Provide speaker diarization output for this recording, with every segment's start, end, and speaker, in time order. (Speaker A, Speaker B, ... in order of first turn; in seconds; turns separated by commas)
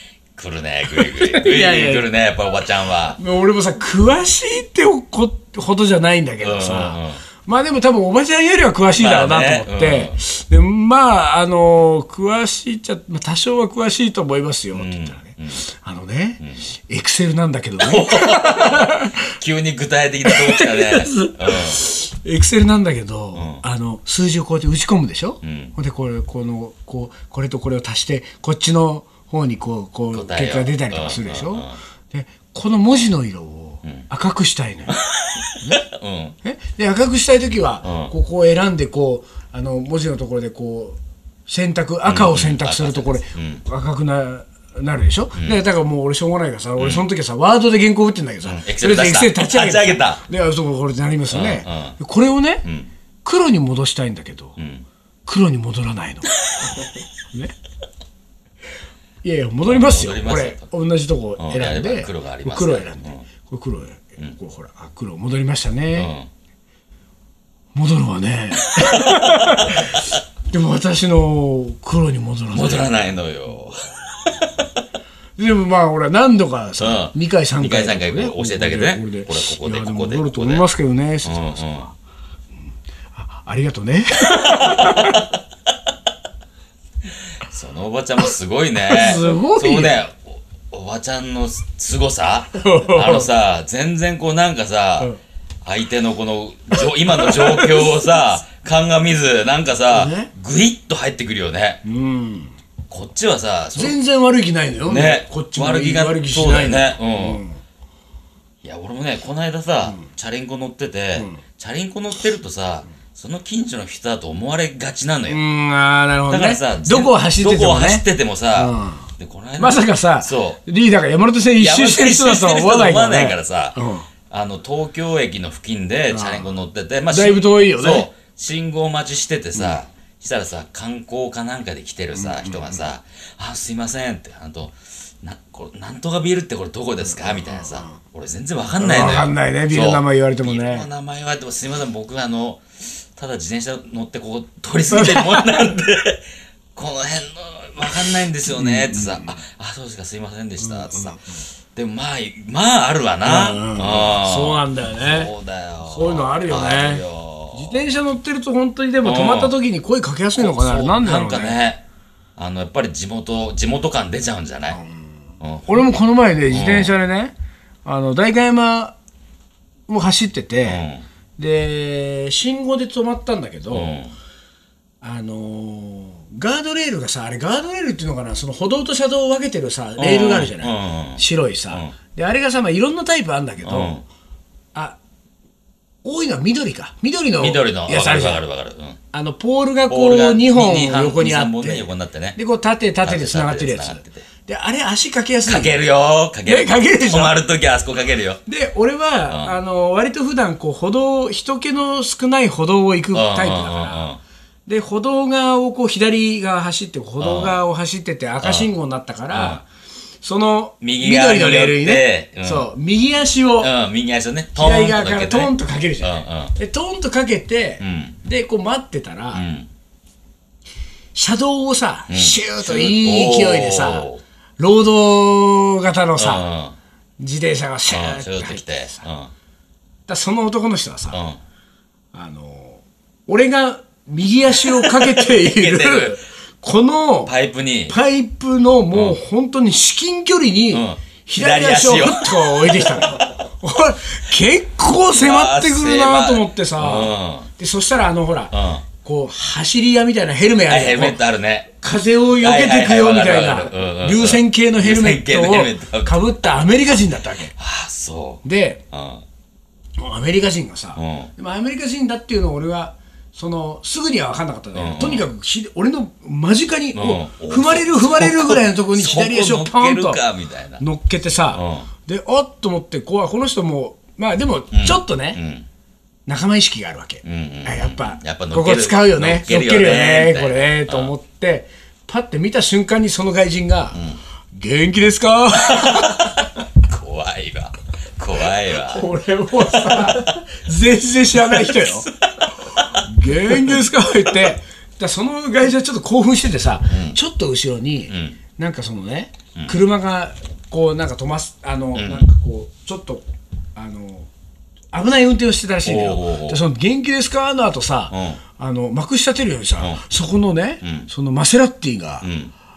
Speaker A: 0.3-3.2, Speaker B: 0.9-2.1, Speaker B: 3.2-19.3, Speaker A: 6.4-7.2, Speaker A: 9.0-10.2, Speaker A: 14.7-15.6, Speaker A: 17.8-21.8, Speaker B: 20.2-35.0, Speaker A: 23.4-23.6, Speaker A: 25.4-25.8, Speaker A: 30.1-31.8, Speaker A: 35.0-36.4, Speaker B: 36.4-52.6, Speaker A: 37.8-38.1, Speaker A: 42.1-43.6, Speaker A: 46.8-47.0, Speaker A: 48.5-50.2, Speaker A: 51.3-52.0, Speaker A: 52.6-52.9, Speaker B: 53.2-54.6, Speaker A: 54.6-54.9, Speaker B: 55.3-56.3, Speaker B: 59.2-66.1, Speaker A: 59.6-60.7, Speaker A: 61.4-63.2, Speaker A: 66.0-66.3, Speaker B: 67.8-73.0, Speaker A: 68.7-70.2, Speaker A: 72.5-73.9, Speaker B: 75.4-81.9, Speaker A: 76.8-80.7, Speaker A: 81.2-81.9, Speaker B: 83.1-85.3, Speaker A: 84.5-85.3, Speaker A: 87.4-95.1, Speaker B: 88.9-90.0, Speaker B: 92.6-93.3, Speaker A: 95.6-101.8, Speaker B: 97.0-98.2, Speaker B: 99.9-100.3, Speaker B: 101.8-102.5, Speaker A: 102.9-104.0, Speaker B: 103.8-107.6, Speaker A: 104.9-107.4, Speaker A: 108.6-115.4, Speaker B: 111.2-111.4, Speaker B: 115.3-124.1, Speaker A: 116.3-120.6, Speaker A: 121.6-123.8, Speaker A: 124.3-151.2, Speaker B: 126.1-126.5, Speaker B: 127.1-128.1, Speaker B: 129.6-129.8, Speaker B: 132.2-132.9, Speaker B: 137.1-138.0, Speaker B: 138.8-140.9, Speaker B: 144.9-145.6, Speaker B: 148.5-149.4, Speaker B: 150.6-151.4, Speaker A: 151.7-157.9, Speaker B: 153.2-155.3, Speaker B: 155.8-161.6, Speaker A: 159.0-159.6, Speaker A: 160.4-161.8, Speaker A: 162.4-164.8, Speaker B: 164.7-169.0, Speaker A: 165.4-165.9, Speaker A: 166.5-166.9, Speaker B: 169.9-170.8, Speaker A: 170.7-171.1, Speaker B: 171.4-173.9, Speaker A: 173.7-174.1, Speaker B: 175.0-184.0, Speaker A: 180.0-181.9, Speaker A: 183.6-184.0, Speaker B: 186.0-188.4, Speaker A: 187.4-189.0, Speaker B: 189.1-195.7, Speaker A: 189.9-192.4, Speaker A: 193.0-194.3, Speaker A: 195.5-198.4, Speaker B: 196.4-197.4, Speaker B: 198.5-204.1, Speaker A: 199.3-199.6, Speaker A: 203.1-204.2, Speaker B: 204.7-209.7, Speaker A: 207.2-207.6, Speaker A: 208.4-208.7, Speaker A: 209.3-209.6, Speaker B: 210.2-213.7, Speaker A: 210.8-212.7, Speaker A: 213.6-216.5, Speaker B: 214.6-219.4, Speaker A: 217.8-218.2, Speaker A: 219.3-219.7, Speaker B: 221.2-226.5, Speaker A: 222.1-224.2, Speaker A: 226.2-226.8, Speaker B: 227.2-229.1, Speaker A: 227.9-229.3, Speaker B: 230.1-231.2, Speaker A: 231.1-231.4, Speaker B: 232.1-237.3, Speaker A: 234.6-236.2, Speaker A: 237.3-238.0, Speaker B: 237.9-251.2, Speaker A: 238.9-239.2, Speaker A: 240.7-243.3, Speaker A: 244.9-247.5, Speaker A: 248.5-248.8, Speaker A: 250.7-251.7, Speaker B: 251.8-257.6, Speaker A: 252.4-257.0, Speaker A: 257.6-259.2, Speaker B: 258.4-258.8, Speaker B: 260.0-270.2, Speaker A: 261.0-261.3, Speaker A: 264.7-265.3, Speaker A: 266.9-270.8, Speaker B: 270.8-275.4, Speaker A: 271.5-271.9, Speaker A: 274.7-275.7, Speaker B: 276.3-286.4, Speaker A: 277.2-281.1, Speaker A: 283.9-284.2, Speaker A: 285.7-289.1, Speaker B: 288.9-292.1, Speaker A: 289.6-290.4, Speaker A: 291.4-293.9, Speaker B: 292.6-303.2, Speaker A: 296.9-297.2, Speaker A: 298.1-298.4, Speaker A: 301.9-302.3, Speaker B: 303.8-304.3, Speaker B: 304.9-312.3, Speaker A: 305.9-306.6, Speaker A: 308.1-308.4, Speaker A: 310.8-311.1, Speaker A: 312.2-312.5